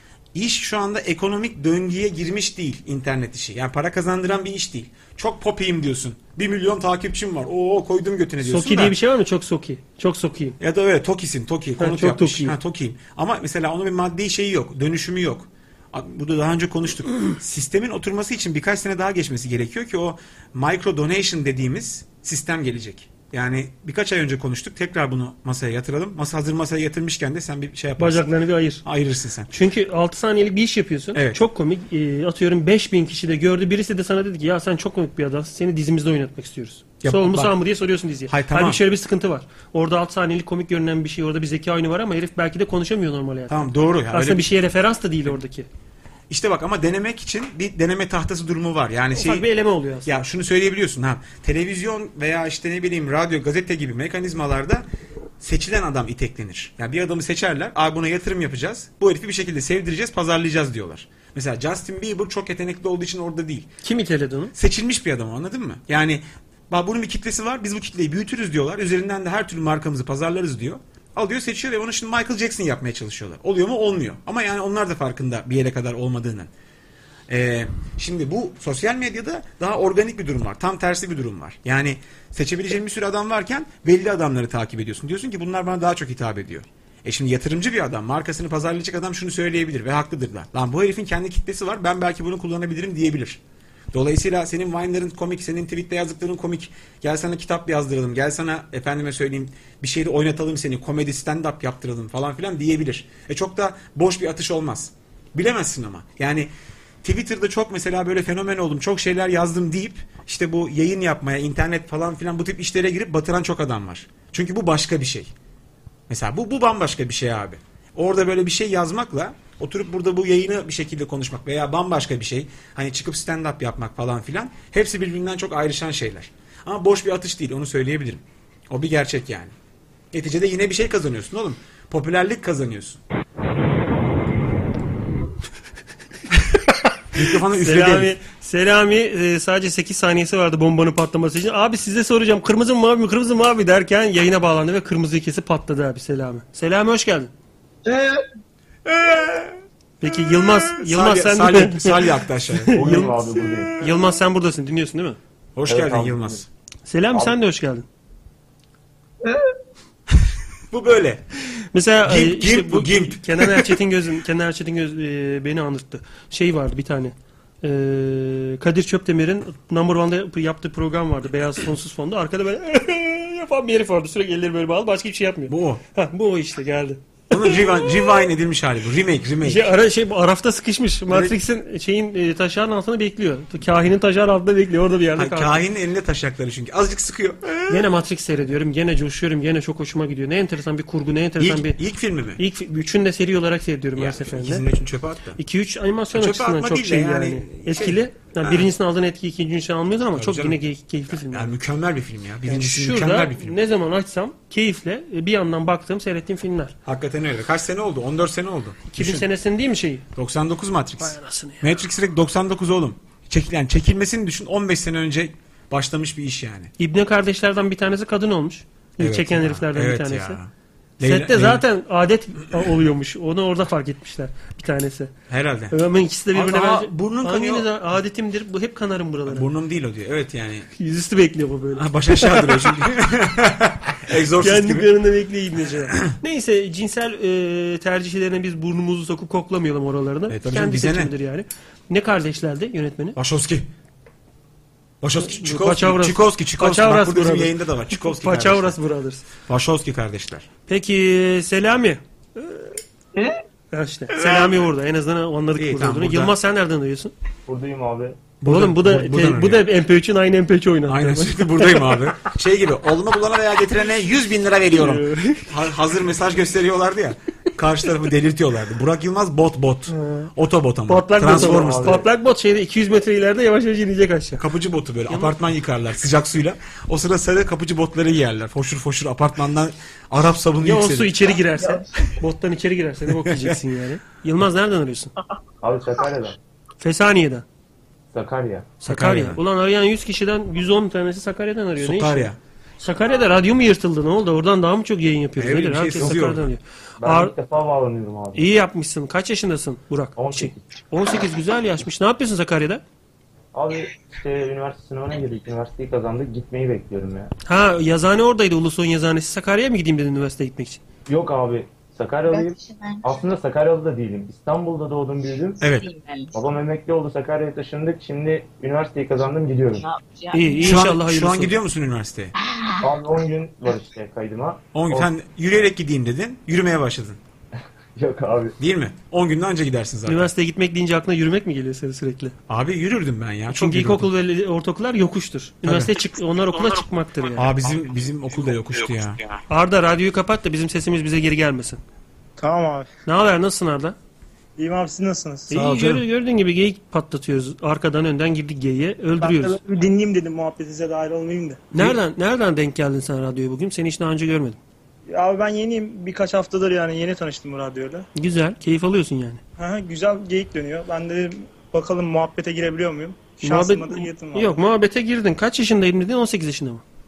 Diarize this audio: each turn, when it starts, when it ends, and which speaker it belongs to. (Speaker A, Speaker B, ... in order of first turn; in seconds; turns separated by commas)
Speaker A: 0.3-8.9, Speaker B: 8.4-10.6, Speaker A: 10.6-28.3, Speaker B: 11.8-12.6, Speaker B: 28.0-28.8, Speaker A: 28.8-29.5, Speaker B: 29.5-45.7, Speaker A: 31.1-31.4, Speaker A: 37.0-37.5, Speaker A: 38.3-38.8, Speaker A: 43.5-44.5, Speaker A: 46.3-49.5, Speaker B: 49.1-50.2, Speaker A: 50.0-54.8, Speaker A: 55.4-63.7, Speaker B: 63.8-64.5, Speaker A: 64.5-76.5, Speaker A: 77.3-93.4, Speaker A: 93.9-106.5, Speaker A: 107.0-115.3, Speaker A: 116.1-129.5, Speaker A: 130.1-133.0, Speaker A: 137.1-138.1, Speaker B: 137.6-147.3, Speaker A: 148.8-153.7, Speaker B: 150.0-155.2, Speaker C: 152.8-153.7, Speaker A: 155.6-156.4, Speaker C: 155.7-156.4, Speaker B: 156.8-157.8, Speaker A: 160.7-161.2, Speaker B: 161.7-178.1, Speaker A: 162.0-163.8, Speaker A: 175.5-175.8, Speaker A: 177.3-179.7, Speaker B: 179.4-185.6, Speaker A: 181.1-181.3, Speaker A: 185.2-187.9, Speaker B: 187.7-191.8, Speaker A: 191.4-192.4, Speaker B: 192.4-194.6, Speaker A: 193.9-195.4, Speaker B: 195.4-201.5, Speaker A: 196.1-198.7, Speaker A: 200.1-203.6, Speaker B: 202.5-206.7, Speaker A: 206.8-209.3, Speaker B: 208.9-210.0, Speaker A: 210.2-216.7, Speaker B: 211.0-211.7, Speaker B: 216.8-220.4, Speaker A: 219.0-221.6, Speaker B: 221.0-225.1, Speaker A: 225.3-225.8, Speaker B: 225.7-229.5, Speaker A: 226.3-227.7, Speaker A: 229.3-230.7, Speaker B: 230.8-232.7, Speaker A: 231.7-234.9, Speaker B: 234.4-243.2, Speaker A: 240.3-241.1, Speaker A: 243.2-243.7, Speaker A: 245.0-248.8, Speaker B: 245.2-249.2, Speaker A: 249.4-250.5, Speaker B: 250.7-252.7, Speaker B: 253.7-257.1, Speaker A: 254.1-254.6, Speaker A: 255.6-256.3, Speaker C: 257.5-258.3, Speaker A: 258.4-259.6, Speaker B: 258.4-262.0, Speaker A: 260.9-272.0, Speaker B: 264.7-265.5, Speaker B: 269.9-270.3, Speaker B: 270.9-274.4, Speaker C: 271.2-272.0, Speaker A: 274.4-281.2, Speaker B: 275.1-275.4, Speaker B: 280.6-285.1, Speaker A: 283.1-283.6, Speaker C: 285.6-286.4, Speaker B: 286.8-287.4, Speaker C: 288.1-288.8, Speaker B: 288.8-297.3, Speaker A: 288.9-289.4, Speaker A: 291.8-292.4, Speaker A: 295.4-296.4, Speaker C: 297.0-298.5, Speaker B: 298.3-302.8, Speaker C: 300.1-300.6, Speaker C: 303.5-307.3, Speaker B: 307.4-310.8, Speaker C: 311.1-315.6, Speaker D: 312.3-313.2, Speaker A: 315.6-315.9, Speaker D: 315.6-316.4, Speaker C: 316.3-319.9, Speaker D: 319.8-320.8, Speaker B: 320.3-321.6, Speaker A: 320.6-322.3, Speaker D: 322.4-322.8, Speaker C: 322.8-325.1, Speaker A: 324.7-327.2, Speaker C: 327.9-328.5, Speaker A: 328.6-330.3, Speaker B: 330.1-332.3, Speaker A: 332.5-334.1, Speaker B: 333.5-337.5, Speaker A: 335.6-335.9, Speaker A: 337.3-339.2, Speaker B: 339.5-341.8, Speaker E: 342.4-342.9, Speaker B: 343.1-343.9, Speaker E: 344.6-345.5, Speaker B: 345.5-349.6, Speaker A: 345.5-346.0, Speaker E: 349.2-351.7, Speaker B: 351.7-354.6, Speaker E: 355.1-358.1, Speaker B: 358.1-359.4, Speaker E: 359.6-364.6, Speaker B: 363.4-366.8